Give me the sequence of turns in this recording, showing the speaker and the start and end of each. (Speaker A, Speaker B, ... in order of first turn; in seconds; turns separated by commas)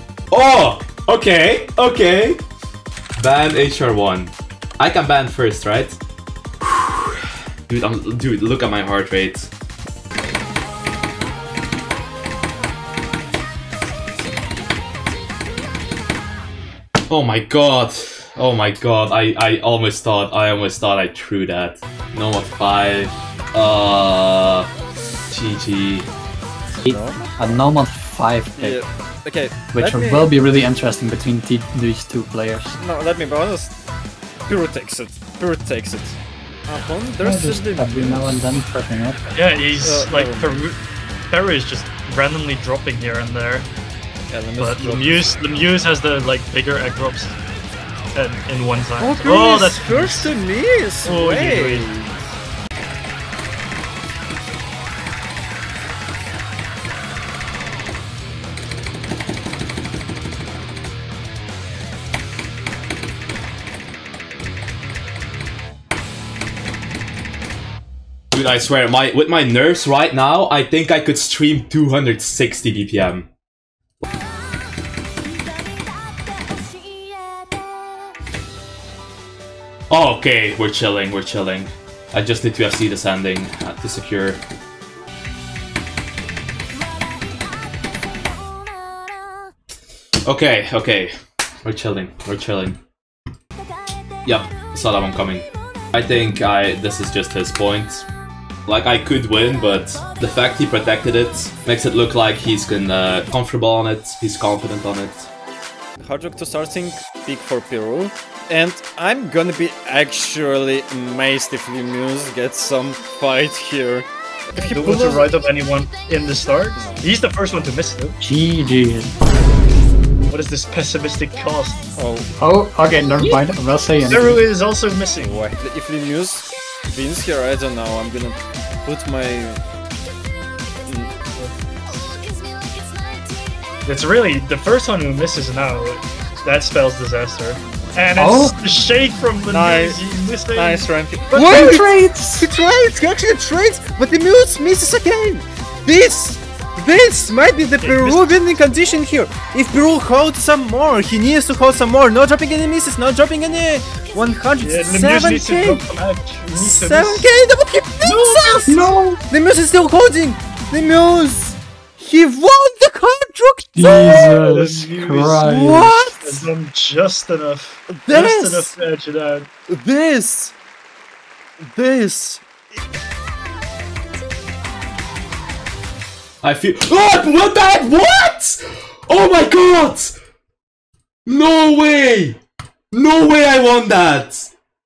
Speaker A: 0.3-2.4, Speaker A: 3.2-6.0, Speaker A: 6.6-9.5, Speaker A: 17.1-24.7, Speaker A: 25.3-26.1, Speaker B: 26.8-27.2, Speaker C: 26.8-28.8, Speaker B: 28.6-30.3, Speaker C: 29.7-32.8, Speaker B: 32.8-33.8, Speaker B: 34.5-36.2, Speaker B: 36.7-38.4, Speaker C: 37.2-39.2, Speaker D: 39.3-40.8, Speaker B: 39.8-40.6, Speaker D: 41.3-43.7, Speaker B: 44.3-45.5, Speaker D: 44.6-47.4, Speaker D: 48.1-50.3, Speaker B: 49.0-52.1, Speaker D: 51.0-52.0, Speaker A: 68.3-73.3, Speaker A: 79.9-84.4, Speaker A: 90.2-91.1, Speaker A: 91.6-92.8, Speaker A: 94.2-98.1, Speaker A: 98.7-105.3, Speaker B: 106.0-115.3, Speaker D: 114.5-118.2, Speaker B: 116.8-117.0, Speaker C: 118.2-119.1, Speaker D: 120.3-121.9, Speaker B: 122.0-122.3, Speaker C: 122.4-124.4, Speaker D: 124.1-125.5, Speaker B: 125.2-129.6, Speaker B: 130.8-131.2, Speaker D: 133.8-141.9, Speaker C: 138.2-138.6, Speaker B: 139.5-155.8, Speaker C: 141.3-142.5, Speaker D: 147.8-148.4, Speaker D: 154.6-157.3, Speaker B: 156.5-164.3, Speaker D: 158.0-158.7, Speaker C: 158.7-159.2, Speaker C: 163.8-166.1, Speaker D: 164.3-169.5, Speaker B: 165.4-166.3, Speaker B: 167.9-168.8, Speaker B: 169.7-170.5, Speaker B: 171.6-172.4, Speaker A: 176.4-180.1, Speaker A: 181.2-182.4, Speaker A: 182.9-184.5